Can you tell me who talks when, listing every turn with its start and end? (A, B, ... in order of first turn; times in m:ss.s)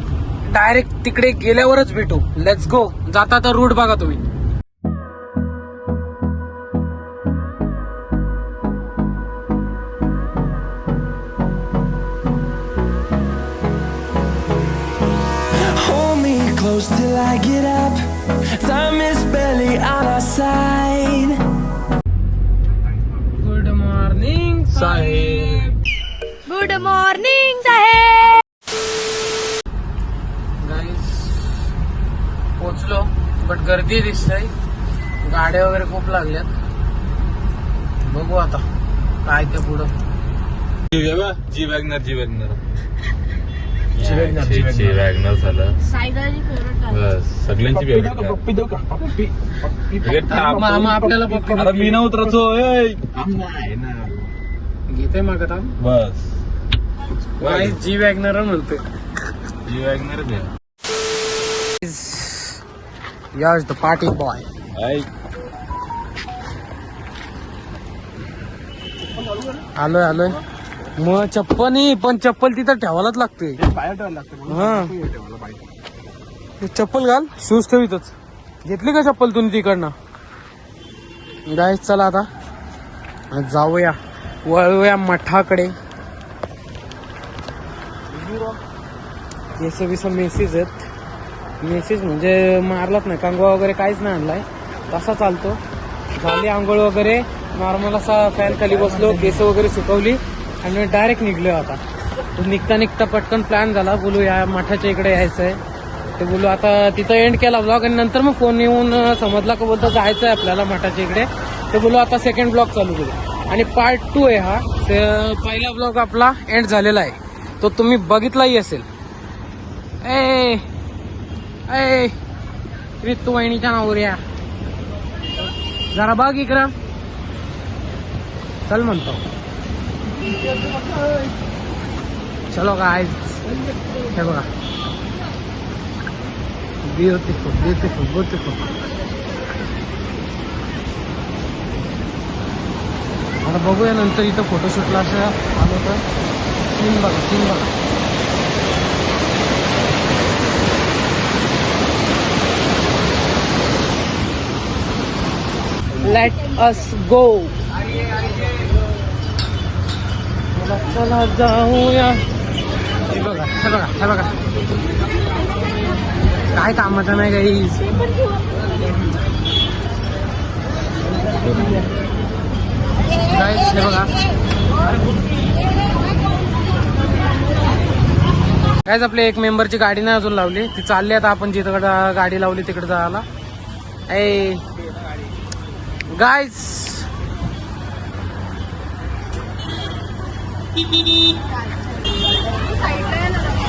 0:00.5-0:04.2 A
0:15.5-0:21.5 B
0:23.3-0:25.7 A
0:24.7-0:25.8 C
0:26.4-0:28.4 D
0:30.6-0:31.6 A
0:32.6-0:34.5 A
0:35.2-0:36.5 A
0:38.0-0:38.7 A
0:39.2-0:39.9 A
0:40.9-0:42.6 C
0:44.0-0:45.8 C
0:44.0-0:45.0 E
0:45.9-0:46.8 D
0:46.7-0:48.4 C
0:47.7-0:52.3 E
0:50.0-0:50.6 C
0:50.3-0:51.9 A
0:51.6-0:54.3 C
0:54.9-0:55.7 A
0:55.8-0:56.3 C
0:57.4-0:58.8 A
0:57.4-0:57.8 C
0:59.7-1:00.5 C
1:01.8-1:02.6 A
1:03.3-1:04.5 A
1:04.8-1:05.1 C
1:09.1-1:09.6 E
1:09.8-1:10.4 A
1:11.0-1:13.6 A
1:13.6-1:15.6 E
1:14.5-1:15.0 A
1:16.6-1:18.1 A
1:18.6-1:19.9 A
1:21.5-1:22.3 A
1:23.3-1:25.7 A
1:28.1-1:28.6 E
1:29.6-1:30.9 A
1:31.6-1:35.6 A
1:36.2-1:41.8 A
1:38.6-1:39.3 E
1:42.3-1:45.6 A
1:46.2-1:58.9 A
2:00.0-2:00.6 A
2:01.7-2:02.1 A
2:03.0-2:04.2 A
2:05.9-2:06.7 A
2:08.7-2:09.2 A
2:12.5-2:14.5 A
2:16.8-2:18.7 A
2:23.4-2:26.0 A
2:26.7-2:27.7 A
2:36.0-2:37.6 A
2:40.5-2:42.2 A
2:43.1-2:44.4 A
2:46.5-2:48.0 A
2:51.4-2:51.9 C
2:53.2-2:54.1 A
2:58.9-3:03.2 A
3:04.1-3:04.6 A
3:06.1-3:07.1 A
3:12.8-3:13.6 D